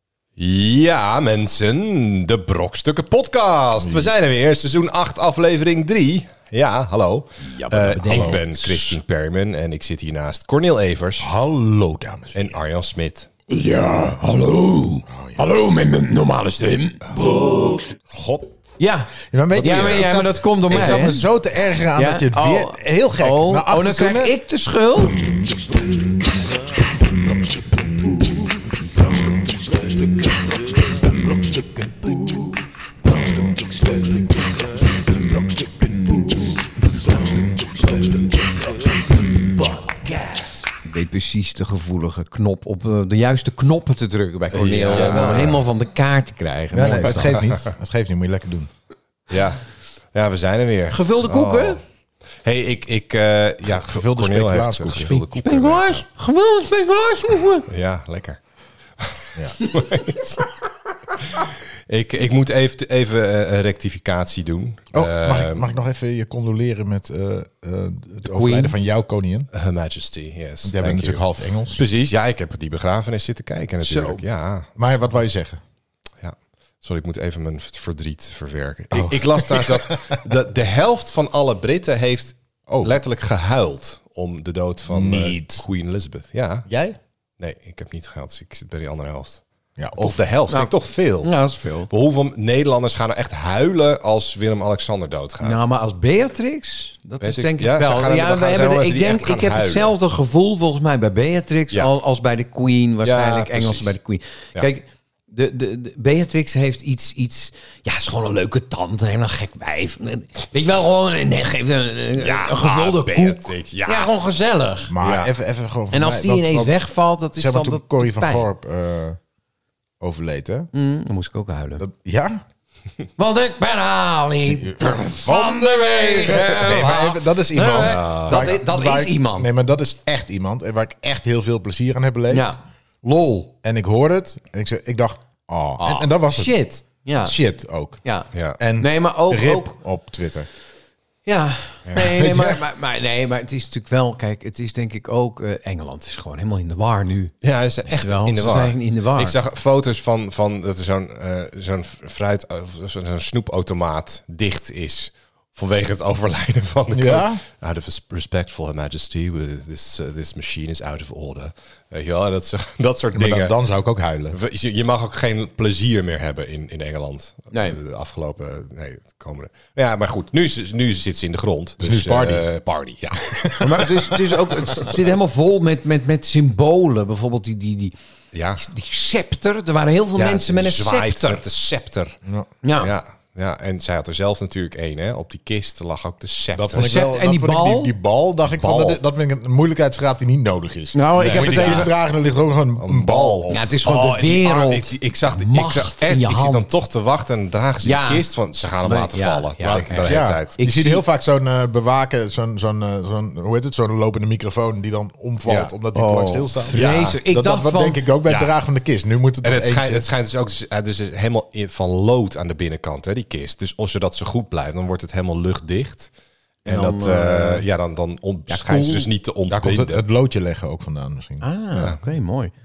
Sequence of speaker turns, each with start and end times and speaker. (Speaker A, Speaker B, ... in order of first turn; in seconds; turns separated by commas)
Speaker A: 0.4-11.3, Speaker B: 3.8-4.1, Speaker C: 7.4-8.2, Speaker B: 7.9-9.0, Speaker B: 11.2-12.5, Speaker A: 12.3-13.3, Speaker C: 13.5-17.0, Speaker B: 15.1-15.4, Speaker B: 17.2-18.5, Speaker C: 18.8-21.3, Speaker B: 19.2-24.3, Speaker A: 19.6-20.1, Speaker C: 21.9-25.3, Speaker B: 25.2-25.6, Speaker B: 29.0-29.3, Speaker B: 33.1-34.1, Speaker C: 40.8-47.4, Speaker A: 44.5-45.6, Speaker B: 44.9-45.6, Speaker B: 46.7-48.7, Speaker A: 49.3-51.8, Speaker C: 50.9-51.8, Speaker A: 52.4-56.0, Speaker B: 53.7-55.1, Speaker C: 55.0-57.7, Speaker A: 57.7-58.4, Speaker A: 59.0-60.5, Speaker A: 61.2-65.7, Speaker B: 64.9-69.5, Speaker C: 68.3-68.7, Speaker A: 69.5-74.7, Speaker B: 70.6-71.8, Speaker C: 73.8-74.2, Speaker B: 74.8-75.6, Speaker A: 76.2-86.7, Speaker B: 78.9-80.0, Speaker B: 82.7-83.0, Speaker B: 84.9-85.7, Speaker B: 86.7-87.0, Speaker A: 87.4-89.4, Speaker B: 89.8-90.3, Speaker A: 90.0-91.3, Speaker C: 90.5-91.9, Speaker A: 91.9-95.7, Speaker C: 95.4-114.9, Speaker A: 97.2-100.0, Speaker A: 103.0-103.9, Speaker A: 112.2-114.1, Speaker B: 114.9-116.8, Speaker A: 115.0-115.3, Speaker C: 115.9-118.5, Speaker B: 117.4-119.2, Speaker B: 120.0-120.7, Speaker C: 120.7-121.8, Speaker B: 121.8-122.4, Speaker C: 123.2-129.5, Speaker B: 124.6-132.5, Speaker A: 127.8-128.5, Speaker C: 132.3-133.5, Speaker B: 133.6-136.6, Speaker C: 135.8-137.4, Speaker B: 137.2-138.0, Speaker C: 138.1-139.8, Speaker A: 138.3-138.6, Speaker B: 138.6-140.5, Speaker C: 141.3-147.3, Speaker B: 142.0-142.6, Speaker A: 147.4-163.6, Speaker C: 147.9-149.4, Speaker B: 156.9-157.4, Speaker B: 163.1-164.4, Speaker A: 164.3-173.8, Speaker C: 167.5-167.8, Speaker B: 171.8-172.5, Speaker B: 173.3-174.1, Speaker C: 173.6-177.9, Speaker A: 178.3-178.6, Speaker C: 178.6-181.4, Speaker A: 180.2-182.2, Speaker C: 182.6-182.9, Speaker A: 182.8-186.9, Speaker B: 186.5-193.5, Speaker C: 186.7-187.9, Speaker A: 188.6-189.0, Speaker C: 190.9-191.9, Speaker A: 191.2-191.9, Speaker A: 192.8-200.6, Speaker C: 193.5-196.7, Speaker C: 197.8-198.2, Speaker C: 198.8-201.0, Speaker B: 199.6-206.8, Speaker A: 205.5-205.7, Speaker C: 205.9-208.0, Speaker A: 206.7-207.2, Speaker B: 207.3-210.1, Speaker A: 209.4-216.1, Speaker A: 216.6-220.0, Speaker C: 216.7-217.7, Speaker C: 218.5-219.1, Speaker B: 219.5-221.4, Speaker C: 221.4-222.5, Speaker A: 221.8-222.0